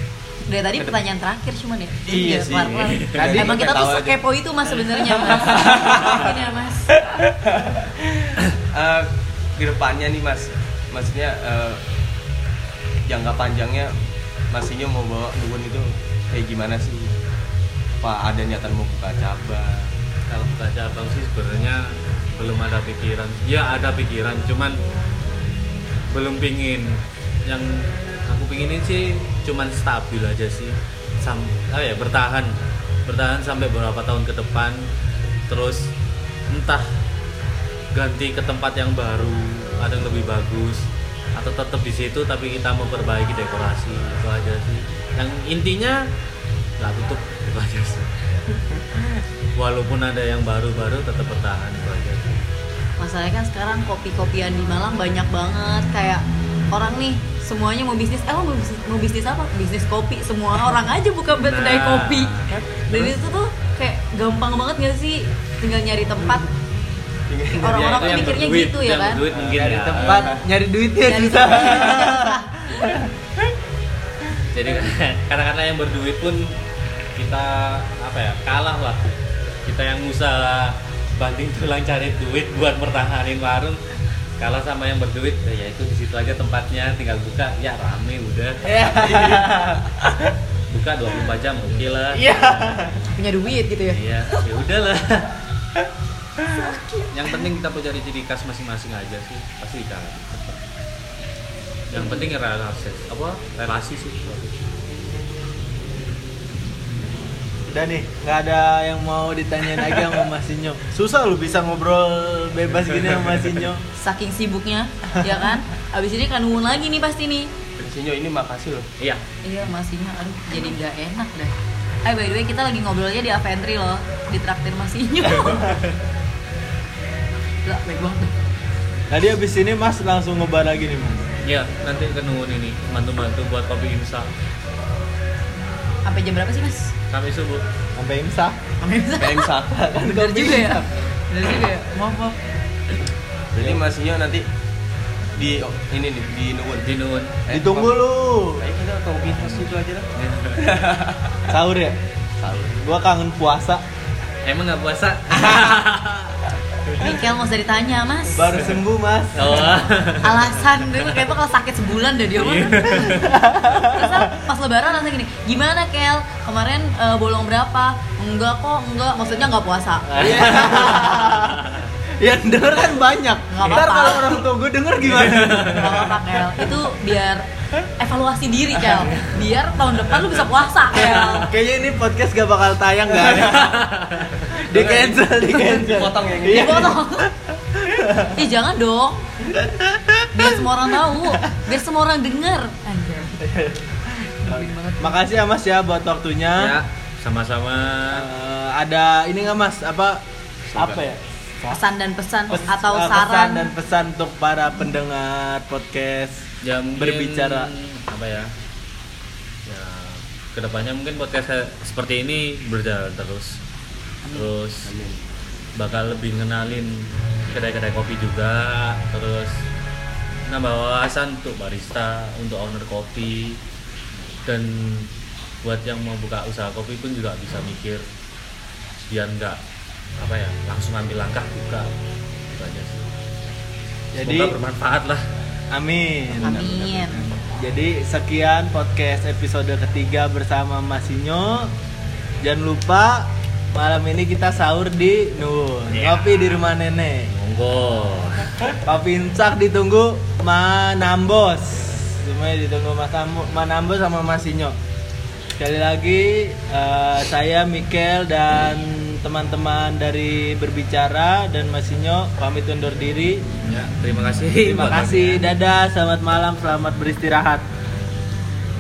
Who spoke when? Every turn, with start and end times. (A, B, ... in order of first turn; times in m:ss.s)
0:00.5-0:06.9 A
0:02.1-0:06.4 B
0:02.7-0:03.3 C
0:03.1-0:03.8 D
0:07.0-0:11.8 B
0:13.0-0:14.0 B
0:14.5-0:17.2 B
0:18.0-0:20.0 B
0:20.3-0:24.8 C
0:26.1-0:34.9 C
0:35.5-0:35.9 C
0:36.5-0:36.9 C
0:37.9-0:46.0 C
0:46.8-0:48.1 C
0:49.6-0:52.5 C
0:53.0-1:02.4 A
1:01.4-1:02.6 C
1:02.9-1:06.5 A
1:07.3-1:08.4 B
1:07.6-1:09.2 A
1:07.7-1:10.3 C
1:09.3-1:10.4 B
1:09.5-1:13.1 D
1:11.0-1:12.9 A
1:14.5-1:16.6 C
1:17.2-1:23.8 C
1:24.4-1:29.2 C
1:28.6-1:29.9 D
1:28.9-1:29.5 B
1:30.7-1:32.4 C
1:32.2-1:33.1 D
1:32.5-1:34.5 A
1:33.9-1:35.3 C
1:36.5-1:37.4 A
1:37.1-1:40.5 C
1:41.9-1:44.5 C
1:47.7-1:53.8 D
1:54.0-1:57.5 A
1:57.8-1:58.9 B
1:59.4-2:01.5 A
2:02.0-2:05.8 A
2:05.4-2:05.7 C
2:07.6-2:08.3 A
2:09.1-2:11.3 D
2:11.4-2:14.3 C
2:16.0-2:16.9 A
2:17.1-2:17.6 C
2:18.0-2:18.6 D
2:18.8-2:22.4 A
2:19.2-2:19.8 B
2:19.7-2:20.9 D
2:23.5-2:24.5 B
2:25.4-2:28.0 B
2:26.8-2:27.3 C
2:27.5-2:28.6 D
2:28.6-2:31.4 B
2:30.2-2:30.7 C
2:31.5-2:32.0 D
2:32.4-2:32.8 B
2:32.8-2:33.8 D
2:34.4-2:36.4 C
2:37.0-2:38.6 A
2:38.3-2:39.8 D
2:39.3-2:41.2 C
2:40.2-2:51.3 A
2:42.4-2:43.3 C
2:43.0-2:44.1 D
2:50.1-2:56.9 D
2:51.3-2:51.9 C
2:53.5-2:54.4 A
2:55.2-2:55.9 C
2:55.5-2:57.5 A
2:58.0-3:01.5 A
2:59.1-2:59.4 C
3:00.9-3:03.9 D
3:03.2-3:03.5 B
3:03.5-3:04.4 C
3:04.5-3:07.2 D
3:04.7-3:07.0 B
3:06.5-3:07.3 A
3:07.8-3:08.4 D
3:08.3-3:09.2 A
3:09.5-3:10.5 D
3:10.3-3:13.4 A
3:11.1-3:11.6 D
3:13.4-3:16.8 D
3:14.4-3:15.2 A
3:16.6-3:18.3 C
3:18.1-3:20.2 D
3:20.7-3:21.0 B
3:20.8-3:21.8 D
3:21.7-3:23.7 A
3:22.5-3:26.5 D
3:26.6-3:28.5 C
3:27.0-3:27.7 D
3:29.6-3:33.6 C
3:34.3-3:35.2 B
3:34.3-3:34.9 C
3:35.8-3:39.6 C
3:40.5-3:43.6 C
3:44.4-3:45.1 C
3:45.6-3:48.0 C
3:49.1-3:49.6 C
3:50.2-3:51.9 C
3:52.5-3:53.1 C
3:54.1-3:54.6 D
3:54.2-3:55.3 C
3:55.7-4:01.7 D
3:56.4-3:57.3 A
4:02.4-4:07.3 D
4:05.9-4:06.6 C
4:07.3-4:08.5 C
4:08.9-4:14.8 D
4:15.6-4:23.5 D
4:23.6-4:25.4 C
4:24.6-4:27.6 D